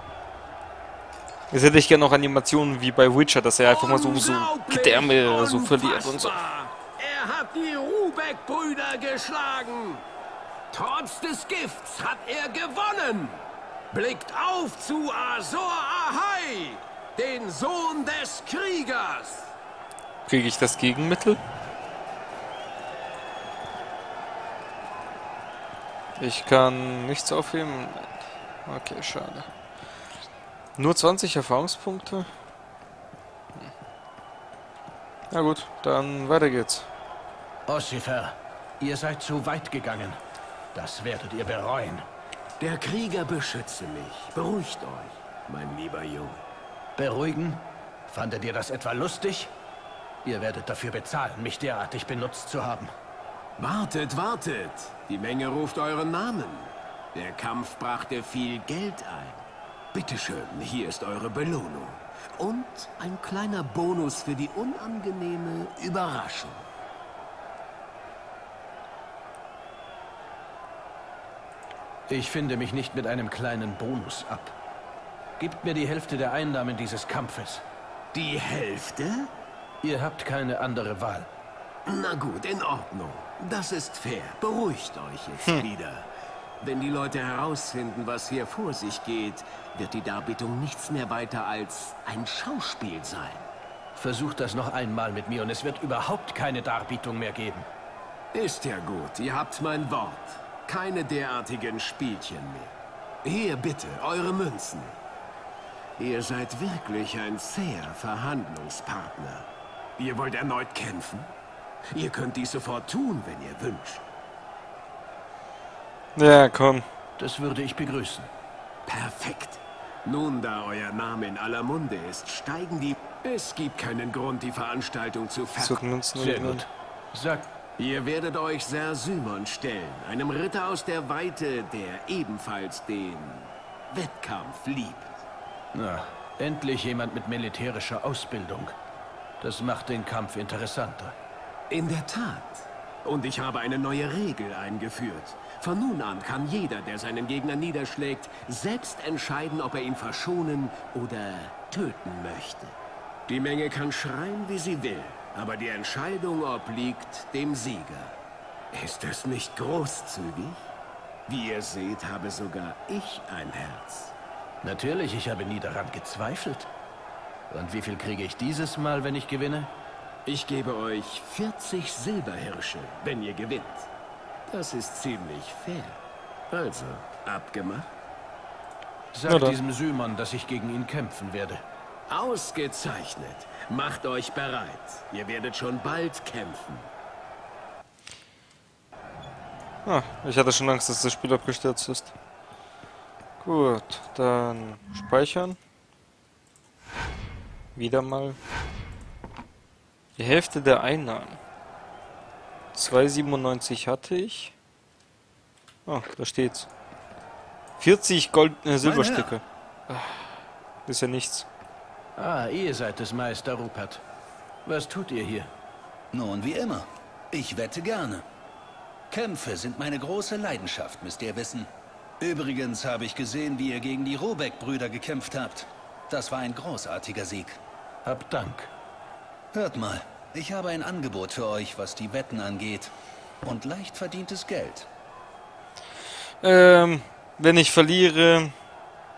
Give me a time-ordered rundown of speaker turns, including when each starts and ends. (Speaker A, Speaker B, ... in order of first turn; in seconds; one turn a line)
Speaker A: 1.5-6.3
Speaker B: 3.6-10.0
Speaker B: 10.7-19.5
Speaker A: 20.3-21.4
Speaker A: 26.2-28.1
Speaker A: 28.6-29.5
Speaker A: 30.8-32.3
Speaker A: 35.3-36.9
Speaker C: 37.7-40.2
Speaker C: 40.7-42.0
Speaker B: 42.6-46.4
Speaker C: 47.0-49.5
Speaker C: 50.2-52.9
Speaker B: 53.6-66.7
Speaker C: 72.1-74.5
Speaker C: 75.4-77.6
Speaker B: 78.1-79.3
Speaker C: 79.8-81.3
Speaker B: 81.8-86.1
Speaker B: 86.6-93.5
Speaker C: 94.0-97.7
Speaker B: 98.3-105.0
Speaker B: 106.0-111.3
Speaker B: 111.9-114.0
Speaker A: 116.2-116.8
Speaker C: 117.2-118.3
Speaker B: 118.9-125.8
Speaker A: 125.6-126.6
Speaker C: 126.2-127.4
Speaker B: 127.8-135.2
Speaker C: 135.7-138.7
Speaker C: 139.4-141.1
Speaker B: 141.7-152.8
Speaker B: 153.3-158.1
Speaker B: 158.7-160.7
Speaker B: 161.3-164.1
Speaker C: 164.6-166.7
Speaker C: 167.5-169.7
Speaker B: 170.2-173.9
Speaker B: 174.5-176.0
Speaker B: 176.5-177.9
Speaker C: 179.1-181.6
Speaker A: 179.3-179.6
Speaker B: 182.1-186.9
Speaker A: 189.8-192.1
Speaker A: 193.4-195.6
Speaker A: 197.7-198.4
Speaker A: 200.2-201.4
Speaker A: 202.7-204.5
Speaker A: 205.8-206.7
Speaker A: 207.8-210.3
Speaker D: 208.8-209.4
Speaker A: 210.9-211.5
Speaker C: 212.2-214.0
Speaker C: 214.6-215.5
Speaker D: 216.1-218.2
Speaker D: 219.1-227.6
Speaker C: 228.0-228.7
Speaker D: 229.5-232.9
Speaker D: 233.4-234.9
Speaker A: 236.4-238.5